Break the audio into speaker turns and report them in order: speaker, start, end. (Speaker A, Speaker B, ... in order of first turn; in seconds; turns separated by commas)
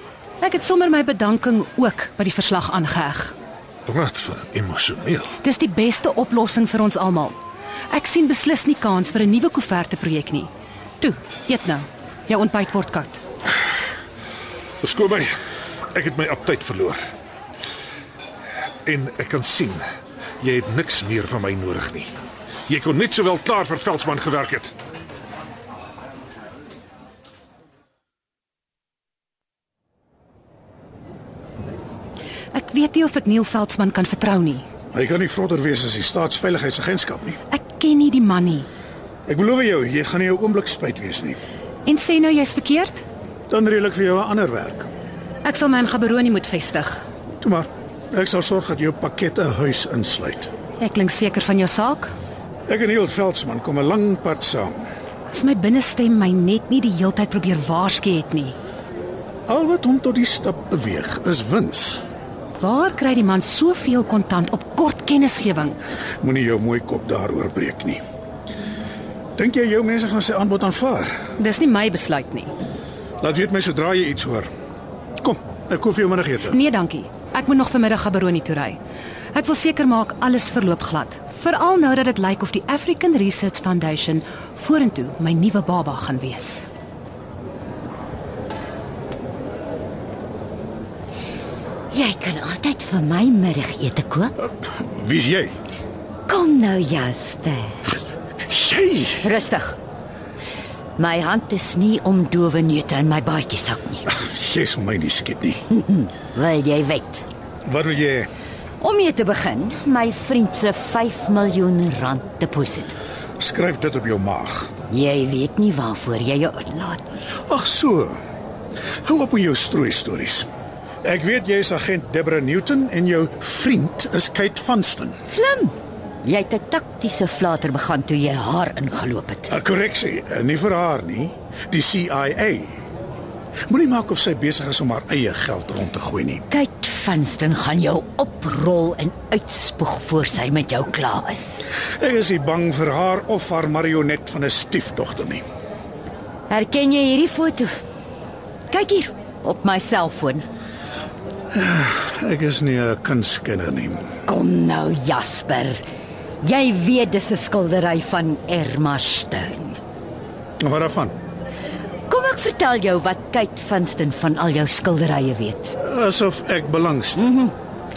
Speaker A: 0.4-3.3, Speaker B: 3.9-5.3, Speaker A: 5.4-7.4, Speaker A: 7.9-10.5, Speaker A: 11.0-13.2, Speaker B: 14.8-15.3, Speaker B: 15.9-17.0, Speaker B: 18.8-19.8, Speaker B: 20.4-22.1, Speaker B: 22.7-24.7, Speaker A: 32.5-34.6, Speaker C: 34.9-37.4, Speaker A: 37.5-38.7, Speaker C: 39.3-41.4, Speaker A: 41.9-43.0, Speaker C: 43.5-44.9, Speaker A: 45.4-47.0, Speaker C: 47.4-50.5, Speaker A: 50.8-52.1, Speaker C: 52.7-54.9, Speaker A: 55.3-58.6, Speaker C: 59.5-62.0, Speaker A: 62.6-65.8, Speaker C: 66.2-68.0, Speaker C: 69.4-71.1, Speaker A: 71.4-72.5, Speaker C: 73.2-74.5, Speaker C: 75.2-76.6, Speaker A: 76.5-78.8, Speaker A: 79.3-86.7, Speaker D: 91.9-94.3, Speaker C: 94.6-95.5, Speaker D: 96.3-98.0, Speaker C: 98.5-99.2, Speaker D: 99.2-99.8, Speaker D: 101.0-104.1, Speaker C: 104.1-105.6, Speaker D: 105.7-107.2, Speaker C: 107.7-108.3, Speaker D: 108.8-113.0, Speaker C: 113.4-114.7, Speaker D: 114.9-117.2, Speaker C: 117.5-118.2, Speaker C: 119.0-120.5, Speaker C: 121.0-125.2, Speaker D: 125.3-129.5, Speaker C: 129.5-132.7, Speaker C: 133.7-136.4, Speaker D: 136.5-141.7, Speaker C: 142.0-145.4, Speaker D: 146.5-147.8, Speaker D: 148.7-150.4, Speaker C: 151.5-154.1, Speaker D: 154.2-155.8, Speaker D: 156.4-159.8, Speaker C: 160.6-161.2, Speaker D: 162.1-165.8, Speaker C: 165.8-167.3, Speaker D: 167.2-167.5